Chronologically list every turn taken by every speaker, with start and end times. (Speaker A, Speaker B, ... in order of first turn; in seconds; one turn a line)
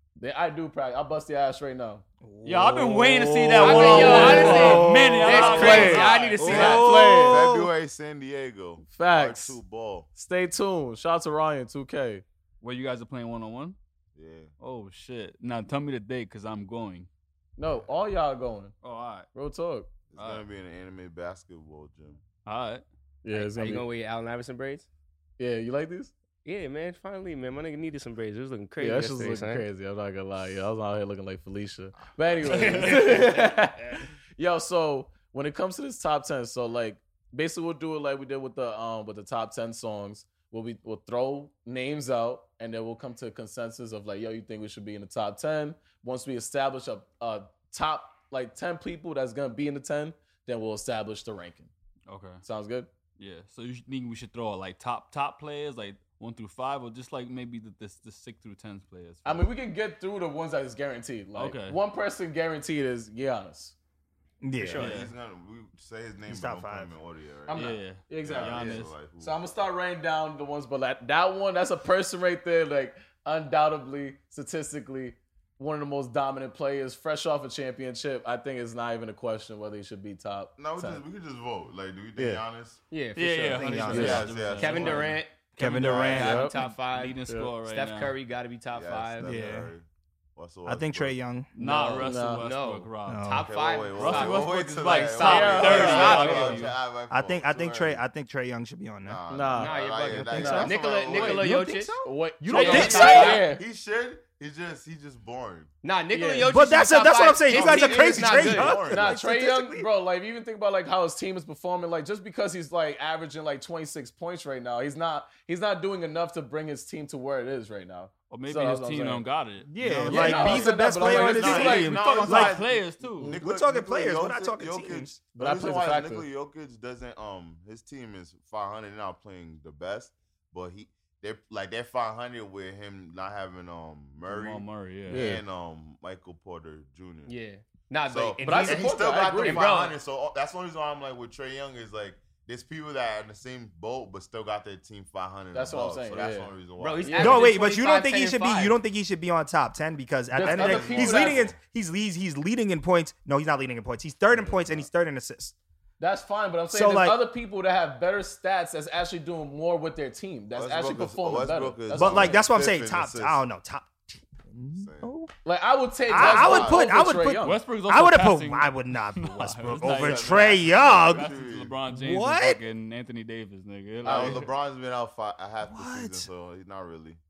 Speaker A: 0.2-2.0
Speaker B: 2.2-5.8
Speaker C: 2.4-6.7
Speaker D: 3.6-6.9
Speaker A: 4.1-4.6
Speaker E: 4.2-4.7
Speaker A: 5.3-7.4
Speaker E: 5.4-10.1
Speaker B: 6.4-7.7
Speaker A: 8.9-9.6
Speaker A: 10.2-12.2
Speaker C: 12.6-13.8
Speaker E: 14.2-14.5
Speaker C: 14.6-17.1
Speaker A: 17.6-18.8
Speaker C: 18.8-19.3
Speaker A: 19.3-19.9
Speaker E: 20.1-22.2
Speaker C: 20.2-20.4
Speaker C: 22.4-22.8
Speaker A: 23.2-23.9
Speaker D: 23.3-24.9
Speaker A: 25.4-26.1
Speaker D: 26.4-29.6
Speaker A: 28.8-51.7
Speaker D: 32.5-33.4
Speaker C: 32.6-33.0
Speaker C: 52.1-52.4
Speaker A: 52.4-52.9
Speaker C: 53.2-59.5
Speaker A: 59.2-63.8
Speaker C: 61.4-61.8
Speaker B: 64.4-65.0
Speaker E: 64.7-69.4
Speaker C: 64.7-65.1
Speaker B: 66.3-66.9
Speaker A: 67.5-81.0
Speaker C: 67.5-68.9
Speaker E: 80.6-82.8
Speaker A: 82.2-82.4
Speaker D: 82.9-83.9
Speaker C: 83.2-85.2
Speaker B: 83.5-84.3
Speaker A: 83.9-84.3
Speaker E: 83.9-86.3
Speaker D: 84.5-89.3
Speaker B: 85.6-86.5
Speaker A: 86.2-86.6
Speaker C: 86.3-88.2
Speaker E: 88.7-91.1
Speaker B: 89.2-89.7
Speaker B: 90.7-91.5
Speaker C: 91.5-93.3
Speaker A: 91.6-92.5
Speaker D: 92.3-96.6
Speaker B: 93.1-93.5
Speaker E: 93.4-98.0
Speaker C: 94.0-96.8
Speaker A: 95.2-96.6
Speaker B: 97.1-99.2
Speaker E: 99.0-101.5
Speaker A: 99.3-100.8
Speaker D: 99.6-101.9
Speaker B: 100.4-103.4
Speaker A: 102.0-103.6
Speaker D: 102.5-103.4
Speaker C: 102.5-103.4
Speaker E: 102.7-105.7
Speaker D: 105.8-108.8
Speaker A: 106.1-106.5
Speaker B: 106.5-109.9
Speaker E: 107.5-109.2
Speaker A: 108.8-119.2
Speaker C: 118.3-120.8
Speaker B: 119.7-122.6
Speaker A: 120.1-122.3
Speaker E: 120.9-137.3
Speaker C: 121.5-123.4
Speaker B: 123.2-125.2
Speaker A: 125.3-126.3
Speaker C: 134.3-135.3
Speaker A: 135.1-135.4
Speaker D: 137.3-140.0
Speaker E: 138.1-147.3
Speaker A: 138.4-139.7
Speaker A: 145.5-146.5
Speaker D: 146.8-148.8
Speaker A: 147.0-147.5
Speaker B: 147.2-155.6
Speaker A: 150.3-151.5
Speaker E: 150.4-151.6
Speaker A: 154.3-154.9
Speaker A: 156.0-162.4
Speaker B: 156.7-157.2
Speaker E: 160.5-163.4
Speaker B: 161.9-165.3
Speaker E: 164.8-165.1
Speaker A: 165.4-167.6
Speaker B: 166.1-171.3
Speaker E: 166.2-167.0
Speaker C: 167.4-174.5
Speaker E: 169.7-171.8
Speaker B: 171.9-172.6
Speaker A: 174.0-174.5
Speaker E: 174.1-177.2
Speaker B: 175.7-176.3